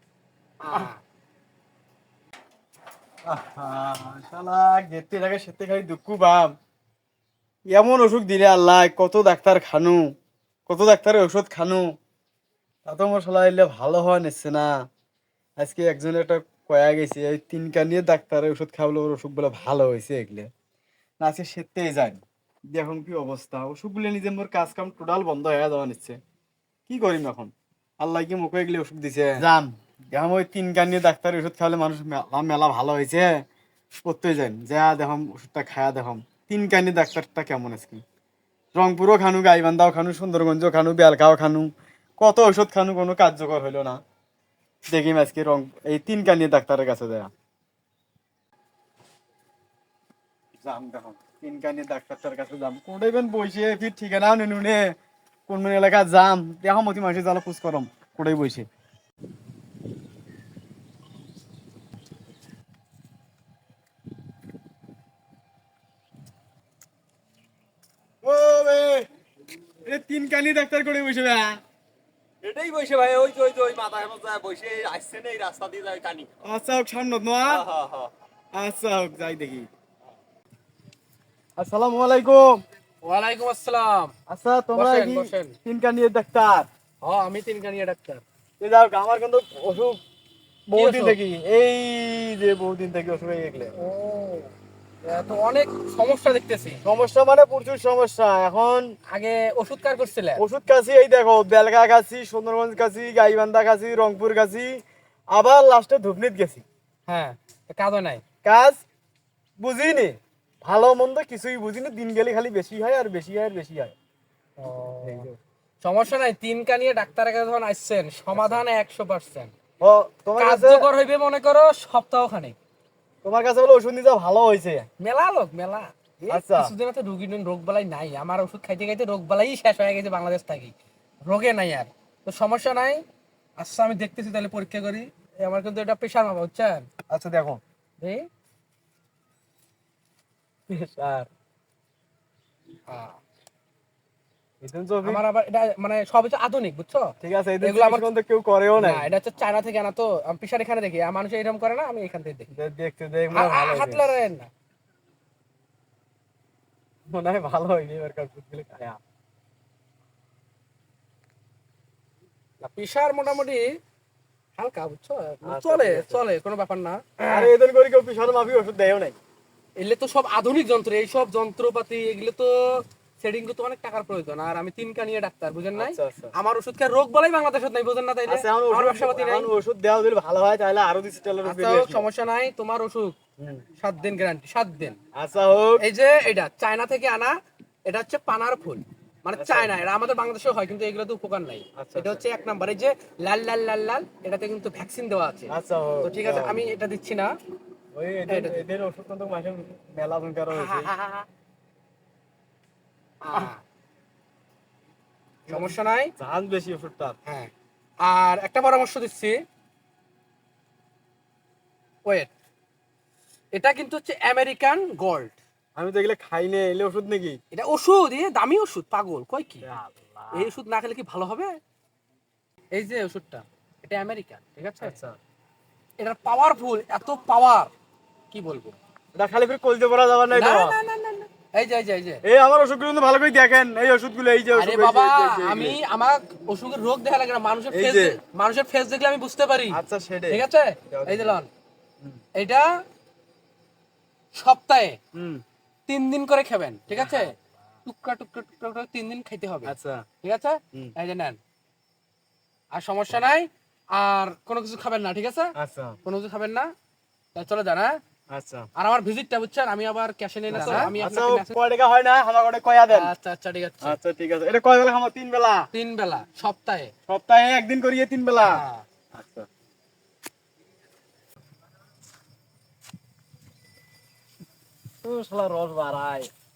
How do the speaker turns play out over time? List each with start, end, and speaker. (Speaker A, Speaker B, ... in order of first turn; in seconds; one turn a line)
Speaker A: 0.6-1.0
Speaker B: 3.3-6.5
Speaker B: 7.7-10.0
Speaker B: 10.7-11.8
Speaker B: 12.9-14.7
Speaker B: 15.6-20.5
Speaker B: 21.2-22.2
Speaker B: 22.7-26.2
Speaker B: 26.9-33.3
Speaker B: 34.1-38.0
Speaker B: 38.8-44.0
Speaker B: 44.9-47.3
Speaker B: 50.6-55.0
Speaker B: 55.5-58.7
Speaker B: 68.2-69.1
Speaker B: 69.9-71.6
Speaker C: 72.4-76.3
Speaker B: 76.4-77.7
Speaker C: 77.6-78.1
Speaker B: 78.6-79.7
Speaker B: 81.6-82.6
Speaker A: 83.0-84.1
Speaker B: 84.3-86.7
Speaker A: 84.8-85.5
Speaker A: 87.0-88.2
Speaker B: 88.6-90.0
Speaker B: 90.7-93.7
Speaker A: 90.8-91.2
Speaker A: 93.8-94.5
Speaker A: 95.1-96.8
Speaker B: 96.8-98.8
Speaker A: 99.1-100.4
Speaker B: 100.4-104.8
Speaker B: 105.3-106.6
Speaker A: 107.1-108.2
Speaker B: 108.4-108.8
Speaker B: 109.6-114.0
Speaker A: 114.6-115.3
Speaker B: 115.0-115.4
Speaker A: 115.8-119.5
Speaker B: 118.3-118.6
Speaker B: 119.8-120.9
Speaker A: 120.4-122.6
Speaker B: 123.2-124.9
Speaker A: 125.0-130.7
Speaker B: 126.3-126.7
Speaker A: 131.2-133.0
Speaker A: 133.6-136.9
Speaker B: 137.1-137.6
Speaker A: 138.0-138.3
Speaker B: 140.7-141.3
Speaker A: 142.9-143.2
Speaker B: 144.6-145.2
Speaker A: 145.0-148.1
Speaker B: 147.2-149.1
Speaker A: 148.8-152.5
Speaker B: 152.5-154.2
Speaker A: 153.3-154.5
Speaker B: 157.1-159.0
Speaker A: 162.6-163.7
Speaker A: 164.6-167.5
Speaker B: 165.4-166.2
Speaker B: 167.3-169.2
Speaker A: 169.8-179.5
Speaker B: 175.8-176.3
Speaker B: 178.3-182.1
Speaker A: 181.4-183.2
Speaker B: 183.4-183.7
Speaker A: 183.8-185.0
Speaker B: 185.1-185.8
Speaker A: 185.8-187.3
Speaker A: 187.9-197.3
Speaker B: 189.3-189.8
Speaker B: 191.8-192.2
Speaker B: 195.5-196.7
Speaker B: 197.9-200.9
Speaker A: 198.3-198.6
Speaker A: 200.5-201.3
Speaker A: 203.2-203.6
Speaker A: 205.5-206.1
Speaker B: 205.5-207.2
Speaker A: 207.3-207.5
Speaker A: 208.0-209.4
Speaker A: 213.5-215.4
Speaker B: 215.8-217.4
Speaker A: 217.5-219.6
Speaker B: 219.6-220.5
Speaker A: 220.3-221.6
Speaker A: 222.7-225.0
Speaker B: 224.8-225.2
Speaker A: 226.0-227.7
Speaker A: 228.3-228.8
Speaker B: 229.2-230.8
Speaker A: 230.3-232.2
Speaker B: 232.2-235.8
Speaker A: 234.6-241.5
Speaker B: 237.7-238.2
Speaker B: 239.7-241.4
Speaker A: 242.4-242.7
Speaker A: 244.3-245.0
Speaker B: 245.2-245.4
Speaker A: 245.9-247.3
Speaker B: 246.9-247.3
Speaker A: 247.8-251.4
Speaker B: 249.7-250.1
Speaker A: 252.7-255.5
Speaker B: 255.6-256.0
Speaker A: 256.1-256.7
Speaker A: 257.4-258.0
Speaker B: 258.3-258.7
Speaker A: 258.8-261.5
Speaker B: 260.5-263.1
Speaker A: 262.9-264.0
Speaker B: 263.8-265.7
Speaker A: 265.7-266.9
Speaker B: 267.1-269.5
Speaker A: 268.4-268.8
Speaker B: 275.0-276.3